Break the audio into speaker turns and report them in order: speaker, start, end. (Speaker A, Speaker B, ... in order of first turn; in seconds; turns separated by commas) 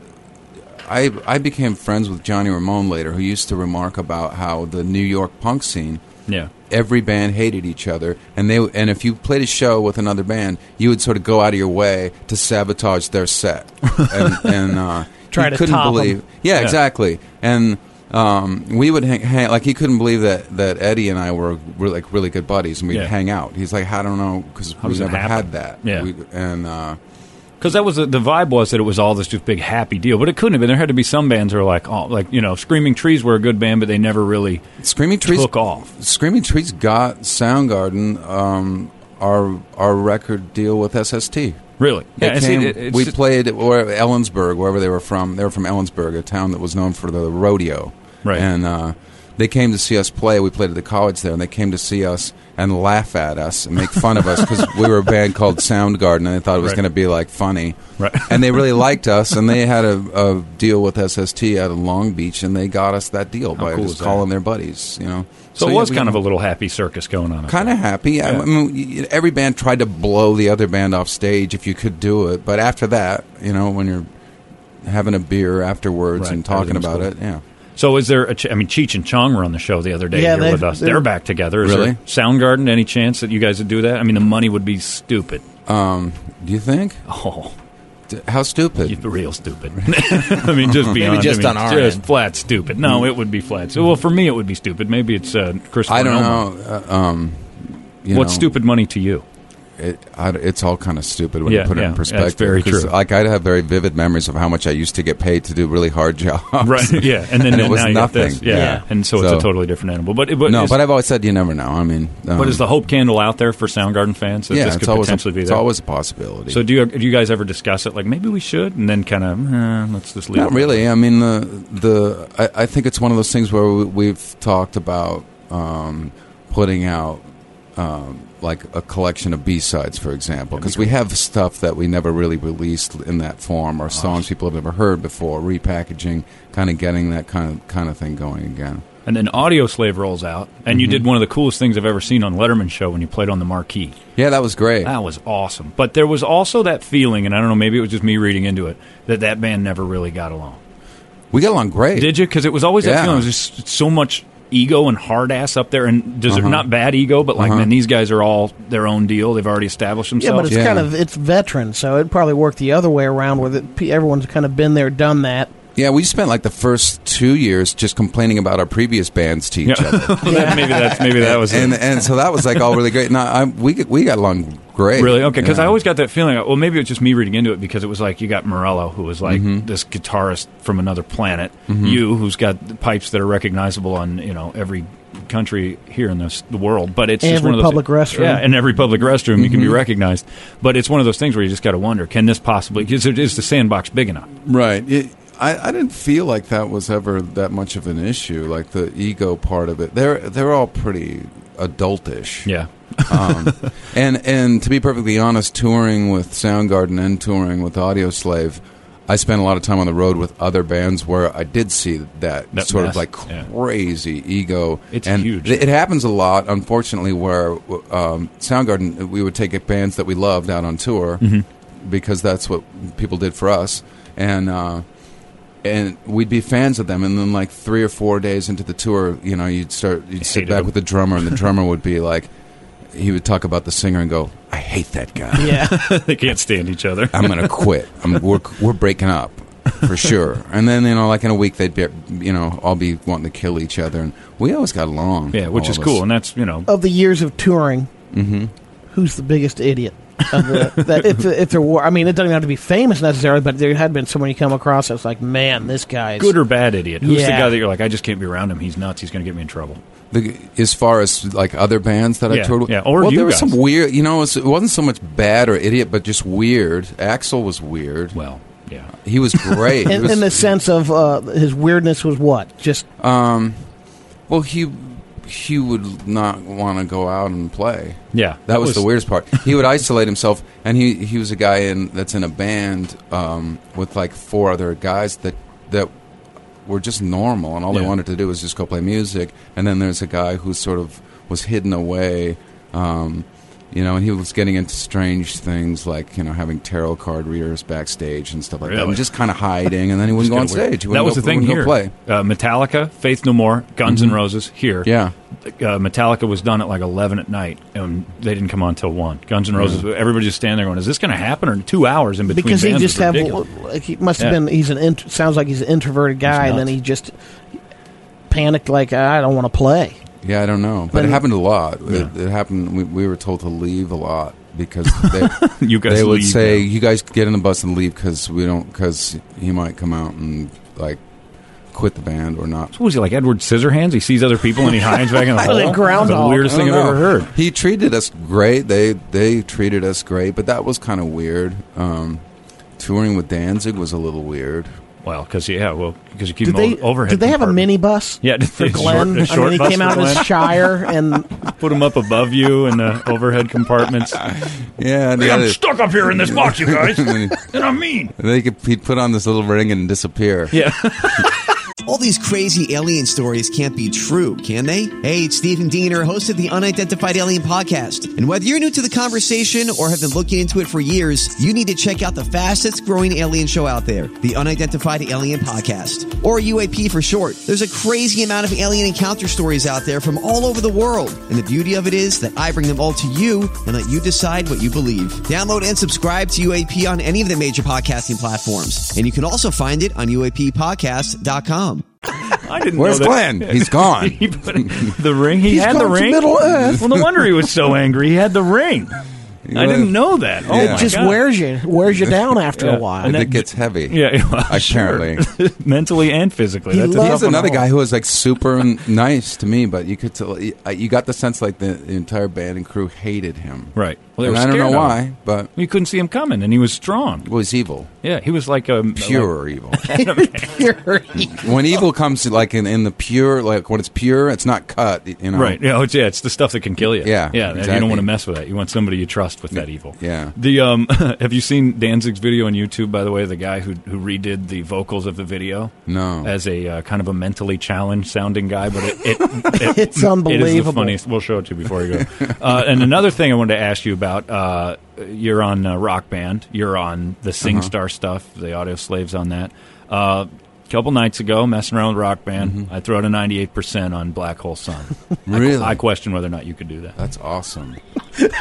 Speaker A: 0.8-6.0, Speaker A: 6.7-27.0, Speaker B: 15.3-16.2, Speaker C: 24.8-26.1, Speaker C: 27.6-34.6, Speaker A: 34.8-41.6, Speaker C: 35.2-35.9, Speaker C: 41.8-43.2, Speaker A: 42.2-66.2, Speaker C: 58.0-58.8, Speaker C: 63.6-64.2, Speaker C: 65.6-68.5, Speaker A: 67.5-74.1, Speaker A: 74.8-77.4, Speaker C: 76.2-77.1, Speaker C: 77.8-85.4, Speaker B: 80.1-81.1, Speaker A: 81.6-82.0, Speaker A: 85.7-87.0, Speaker C: 87.1-87.5, Speaker A: 88.1-89.1, Speaker C: 88.8-96.5, Speaker A: 89.8-92.0, Speaker A: 92.8-93.1, Speaker A: 95.9-98.5, Speaker C: 98.1-99.2, Speaker A: 99.8-109.5, Speaker C: 101.5-102.9, Speaker C: 106.6-110.8, Speaker B: 108.5-108.8, Speaker A: 110.5-112.7, Speaker C: 112.3-115.6, Speaker A: 114.5-116.6, Speaker C: 116.5-120.8, Speaker A: 120.3-127.2, Speaker A: 127.8-138.8, Speaker C: 130.5-130.9, Speaker C: 133.9-134.2, Speaker C: 139.1-144.0, Speaker A: 140.7-141.0, Speaker A: 144.2-144.9, Speaker C: 144.8-150.6, Speaker A: 151.3-152.2, Speaker C: 151.9-160.7, Speaker A: 152.8-153.3, Speaker A: 156.3-156.7, Speaker A: 157.4-157.7, Speaker B: 160.2-165.5, Speaker A: 160.5-160.9, Speaker A: 165.8-175.8, Speaker C: 169.7-172.7, Speaker B: 170.2-171.0, Speaker C: 174.9-194.3, Speaker A: 179.2-179.7, Speaker A: 181.7-182.0, Speaker B: 187.2-188.4, Speaker A: 189.3-189.8, Speaker A: 194.4-202.5, Speaker C: 202.5-203.7, Speaker A: 203.1-224.8, Speaker C: 212.5-213.5, Speaker C: 214.9-215.7, Speaker C: 221.2-221.5, Speaker A: 225.6-232.3, Speaker C: 230.2-231.4, Speaker A: 232.9-235.7, Speaker C: 235.3-237.7, Speaker B: 235.4-235.8, Speaker A: 237.1-246.0, Speaker C: 245.3-246.7, Speaker B: 246.7-247.9, Speaker A: 248.1-248.5, Speaker B: 248.9-256.4, Speaker C: 250.2-251.1, Speaker C: 256.2-259.8, Speaker B: 257.0-257.6, Speaker A: 260.1-268.2, Speaker C: 262.3-263.6, Speaker C: 268.1-269.9, Speaker A: 269.0-270.4, Speaker B: 269.9-272.9, Speaker A: 273.0-273.6, Speaker A: 274.3-285.9, Speaker C: 278.1-279.5, Speaker A: 286.6-301.9, Speaker C: 298.6-299.1, Speaker C: 300.1-304.9, Speaker A: 303.9-304.2, Speaker A: 304.8-305.1, Speaker C: 305.4-313.4, Speaker A: 309.6-309.8, Speaker B: 312.3-317.1, Speaker C: 316.3-316.7, Speaker B: 318.3-320.0, Speaker A: 320.2-331.0, Speaker B: 320.9-321.2, Speaker C: 324.9-326.7, Speaker A: 331.7-332.7, Speaker C: 332.7-337.3, Speaker B: 335.4-336.5, Speaker A: 335.4-342.2, Speaker A: 342.8-344.7, Speaker C: 345.0-347.7, Speaker B: 346.4-351.3, Speaker C: 348.2-350.7, Speaker C: 351.5-354.2, Speaker A: 354.1-357.5, Speaker C: 355.2-358.1, Speaker A: 358.2-360.6, Speaker C: 360.5-361.4, Speaker D: 361.9-391.9, Speaker C: 392.2-399.0, Speaker A: 392.8-394.9, Speaker B: 395.4-396.9, Speaker A: 396.5-397.0, Speaker A: 399.4-401.0, Speaker C: 399.5-401.2, Speaker B: 400.5-403.2, Speaker C: 402.5-407.6, Speaker A: 403.0-405.2, Speaker B: 406.7-407.6, Speaker A: 407.0-415.5, Speaker C: 413.8-417.3, Speaker A: 417.2-417.9, Speaker C: 418.0-420.6, Speaker A: 418.9-419.9, Speaker B: 419.9-421.5, Speaker A: 421.2-425.6, Speaker C: 425.3-457.0, Speaker A: 426.8-428.1, Speaker A: 429.5-430.4, Speaker A: 435.9-436.3, Speaker B: 439.5-441.0, Speaker A: 447.4-447.7, Speaker A: 452.4-452.7, Speaker A: 455.3-455.8, Speaker A: 457.0-457.8